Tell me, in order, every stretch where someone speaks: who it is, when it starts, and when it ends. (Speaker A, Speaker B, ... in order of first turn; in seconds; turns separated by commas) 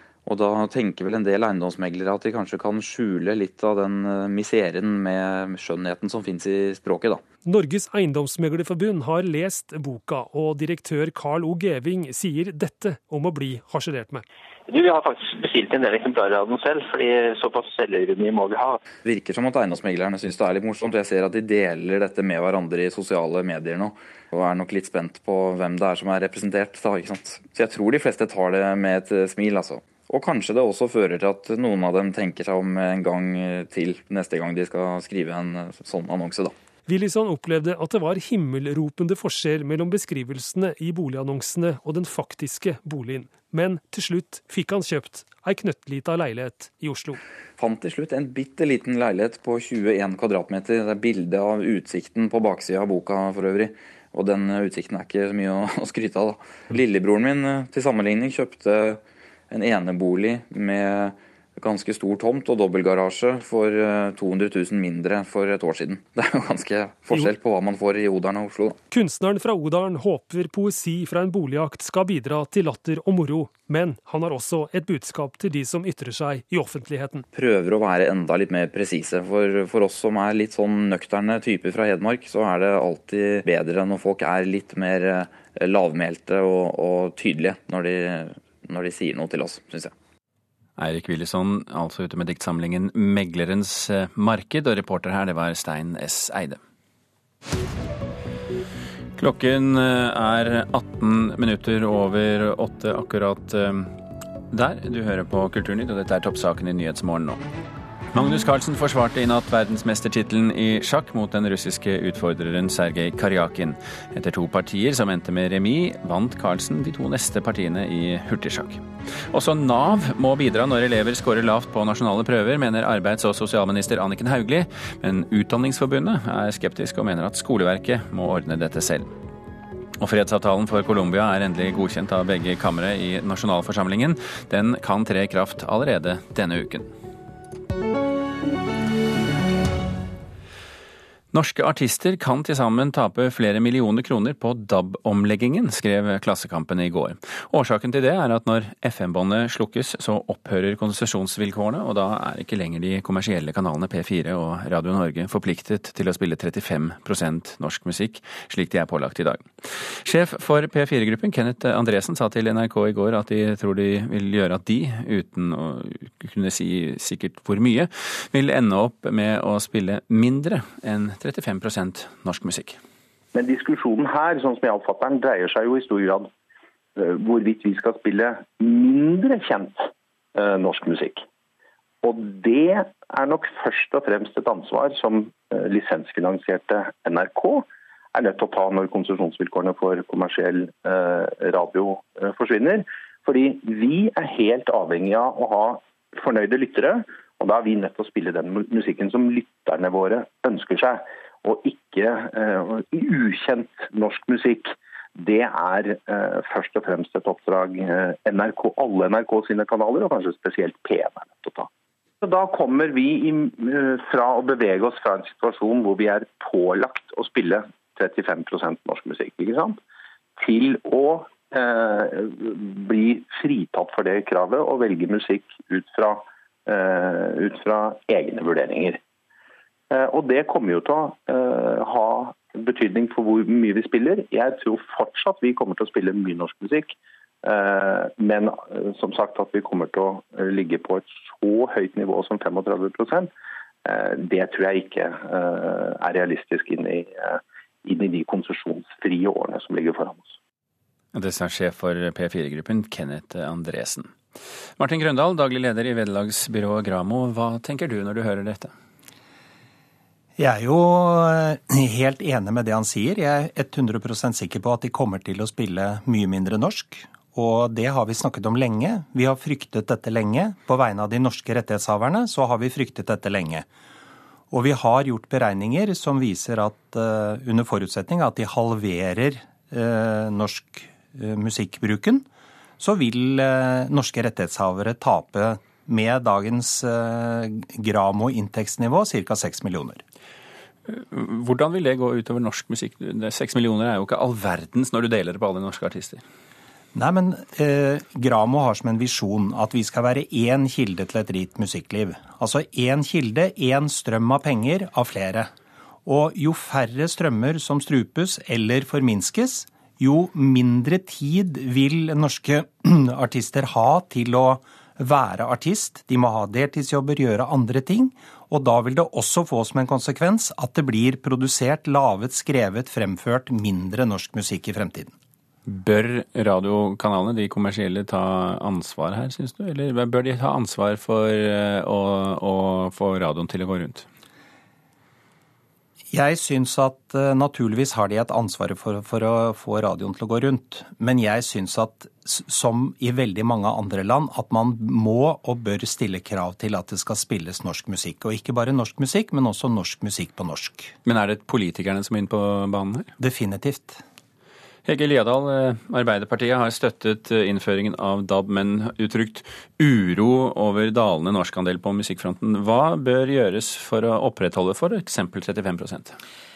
Speaker A: 0.2-7.2, Speaker B: 7.5-14.2, Speaker C: 14.7-18.8, Speaker A: 19.0-36.5, Speaker B: 36.9-47.2, Speaker A: 47.6-68.8, Speaker B: 68.9-77.2, Speaker A: 77.3-89.9, Speaker D: 90.8-96.6, Speaker D: 99.2-103.9, Speaker D: 104.5-107.4, Speaker D: 108.1-129.1, Speaker D: 130.0-136.9, Speaker D: 141.3-172.8, Speaker E: 173.3-176.3, Speaker E: 176.9-181.2, Speaker E: 182.0-211.7, Speaker E: 212.2-219.8, Speaker E: 220.4-229.0, Speaker E: 229.9-243.3, Speaker E: 243.8-250.3, Speaker D: 251.1-254.1, Speaker D: 254.8-258.7, Speaker F: 260.4-273.7, Speaker F: 274.5-282.2, Speaker F: 282.8-290.0, Speaker D: 290.9-296.2, Speaker F: 296.9-305.5, Speaker F: 306.0-325.1, Speaker D: 325.6-334.1, Speaker F: 336.1-350.9, Speaker D: 351.0-353.1, Speaker F: 353.2-354.0, Speaker D: 354.9-366.1